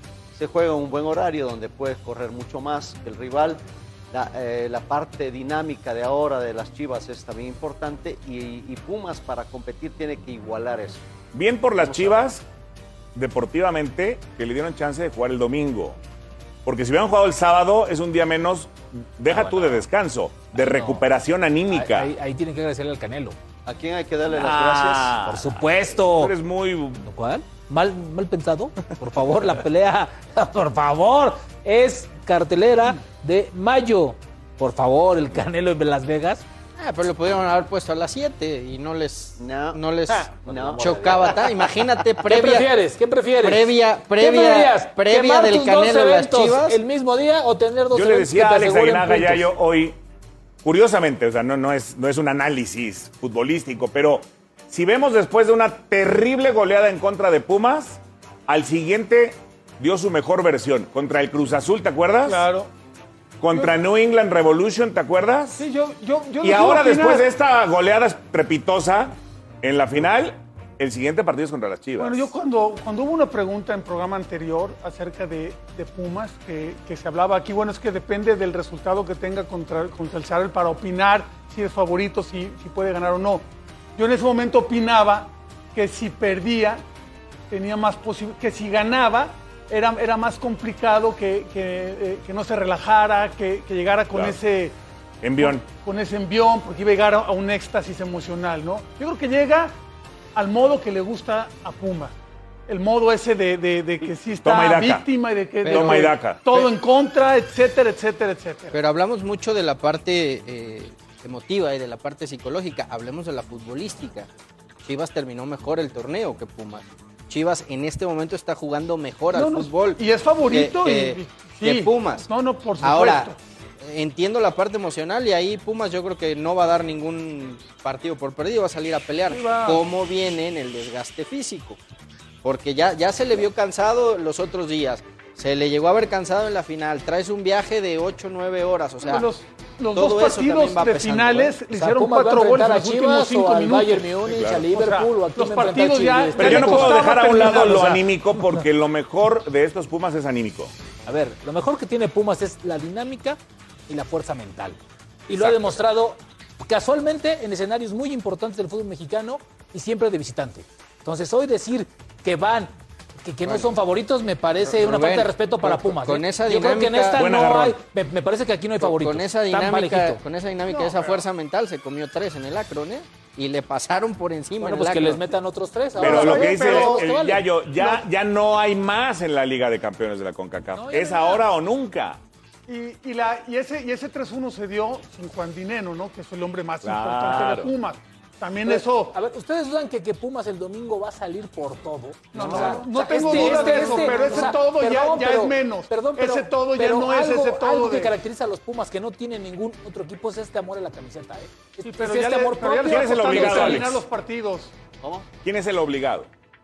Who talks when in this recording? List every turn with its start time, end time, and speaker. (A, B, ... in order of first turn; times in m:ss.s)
0:00.3-0:11.0 A
0:11.3-0:12.4 B
0:11.8-0:12.2 A
0:13.2-0:16.0 B
0:16.6-0:22.1 B
0:19.3-0:19.9 C
0:20.5-0:21.0 C
0:21.7-0:23.4 C
0:23.7-0:25.2 A
0:24.3-0:27.1 B
0:25.2-0:26.3 C
0:27.0-0:36.4 C
0:36.8-0:42.7 D
0:39.4-0:41.6 A
0:40.5-0:41.1 C
0:42.2-0:49.5 C
0:43.4-0:46.8 D
0:47.9-0:50.0 B
0:50.6-1:02.5 B
1:02.2-1:02.7 E
1:03.4-1:05.7 B
1:03.5-1:03.8 E
1:05.6-1:07.3 E
1:06.4-1:12.3 B
1:12.0-1:26.8 E
1:27.5-1:34.8 E
1:34.1-1:34.4 B
1:35.2-1:35.7 B
1:35.4-1:39.8 E
1:40.4-1:42.2 E
1:42.7-1:48.8 E
1:44.4-1:45.1 B
1:45.6-1:46.7 D
1:45.7-1:46.5 B
1:48.7-1:54.3 D
1:54.8-2:02.3 D
1:59.3-2:03.4 E
2:02.8-2:11.8 D
2:09.3-2:09.8 E
2:12.4-2:19.3 D
2:19.0-2:28.1 E
2:19.9-2:21.6 D
2:21.7-2:27.9 C
2:24.3-2:24.6 B
2:26.4-2:30.7 B
2:31.1-2:50.2 C
2:35.3-2:35.8 B
2:44.7-2:47.2 D
2:47.2-2:47.8 B
2:48.8-2:55.3 D
2:50.7-2:51.2 E
2:54.6-2:57.5 C
2:56.0-2:57.2 E
2:56.0-3:02.2 B
3:00.7-3:01.4 C
3:02.7-3:09.2 E
3:06.8-3:07.7 B
3:08.6-3:23.9 C
3:12.3-3:18.2 E
3:12.5-3:12.8 B
3:21.8-3:24.8 E
3:22.9-3:24.0 B
3:25.0-3:25.3 A
3:25.4-3:26.3 B